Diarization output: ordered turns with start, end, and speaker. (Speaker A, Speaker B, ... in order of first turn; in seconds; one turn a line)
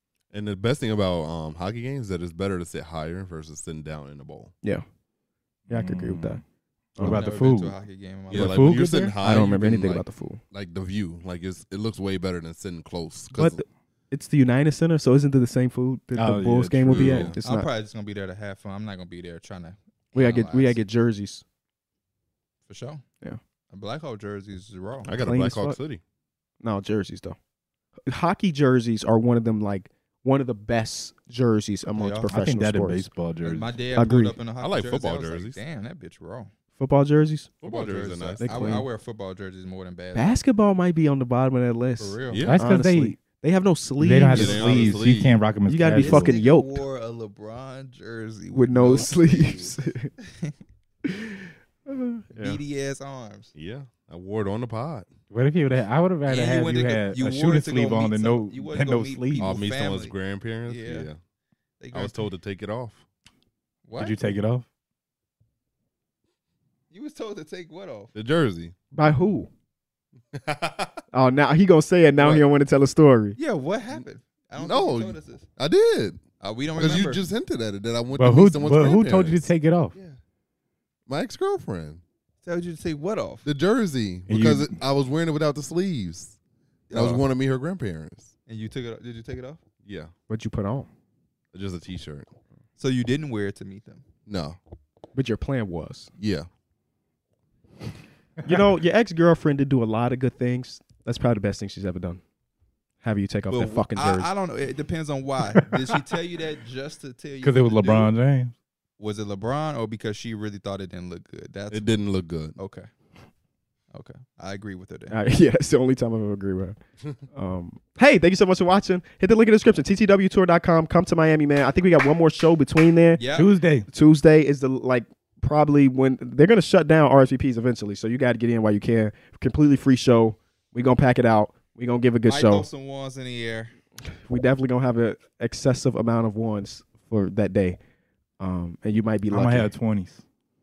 Speaker A: 0.3-4.5
Speaker B: 5.7-6.4
Speaker C: 5.7-6.4
Speaker B: 7.0-7.2
Speaker C: 7.0-7.8
Speaker D: 7.0-8.8
Speaker C: 8.3-9.2
Speaker A: 8.3-13.6
Speaker B: 9.1-10.4
Speaker B: 13.3-17.7
Speaker C: 16.1-17.3
Speaker A: 16.9-17.4
Speaker D: 17.4-20.8
Speaker B: 20.1-21.4
Speaker D: 22.7-23.0
Speaker D: 23.7-25.1
Speaker A: 25.0-26.0
Speaker B: 25.2-25.8
Speaker B: 26.6-27.4
Speaker B: 28.1-33.1
Speaker D: 31.9-32.3
Speaker C: 32.3-33.7
Speaker D: 33.4-36.5
Speaker B: 33.9-34.4
Speaker A: 34.6-35.6
Speaker B: 36.8-37.5
Speaker A: 37.6-38.8
Speaker D: 37.6-40.4
Speaker B: 38.4-38.9
Speaker B: 40.1-44.8
Speaker D: 42.0-42.4
Speaker A: 42.3-42.6
Speaker C: 42.4-43.1
Speaker C: 44.0-46.3
Speaker A: 44.3-45.4
Speaker D: 44.3-45.0
Speaker B: 45.7-46.8
Speaker D: 46.0-50.5
Speaker B: 48.5-50.1
Speaker B: 51.0-52.6
Speaker D: 52.4-53.5
Speaker A: 53.5-55.1
Speaker C: 55.3-59.6
Speaker D: 56.3-60.1
Speaker A: 59.4-61.2
Speaker D: 60.7-61.1
Speaker D: 61.8-62.2
Speaker A: 61.9-63.0
Speaker D: 63.8-64.2
Speaker C: 64.0-64.7
Speaker D: 66.9-68.1
Speaker A: 68.1-68.7
Speaker B: 68.9-69.5
Speaker A: 70.3-71.0
Speaker B: 71.1-73.4
Speaker A: 72.2-72.5
Speaker D: 73.4-75.5
Speaker A: 74.6-76.2
Speaker D: 76.4-77.2
Speaker A: 76.8-79.5
Speaker C: 78.1-79.9
Speaker A: 81.1-82.0
Speaker D: 82.4-83.5
Speaker A: 83.4-86.4
Speaker C: 84.3-84.8
Speaker D: 86.9-87.3
Speaker A: 86.9-88.3
Speaker D: 88.5-89.6
Speaker A: 89.8-90.1
Speaker B: 90.3-90.9
Speaker A: 91.5-92.3
Speaker D: 92.8-94.0
Speaker A: 94.3-94.6
Speaker B: 95.1-96.1
Speaker A: 96.2-96.5
Speaker B: 98.4-102.2
Speaker B: 103.0-104.3
Speaker D: 103.5-108.1
Speaker C: 105.5-106.0
Speaker C: 107.4-108.5
Speaker D: 109.0-112.0
Speaker A: 111.7-112.6
Speaker D: 112.6-112.9
Speaker D: 113.9-115.1
Speaker B: 115.1-116.8
Speaker B: 117.3-123.2
Speaker D: 123.2-123.5
Speaker C: 123.3-123.9
Speaker B: 123.9-132.7
Speaker D: 132.3-133.7
Speaker B: 134.2-137.8
Speaker B: 138.4-139.7
Speaker C: 139.3-140.2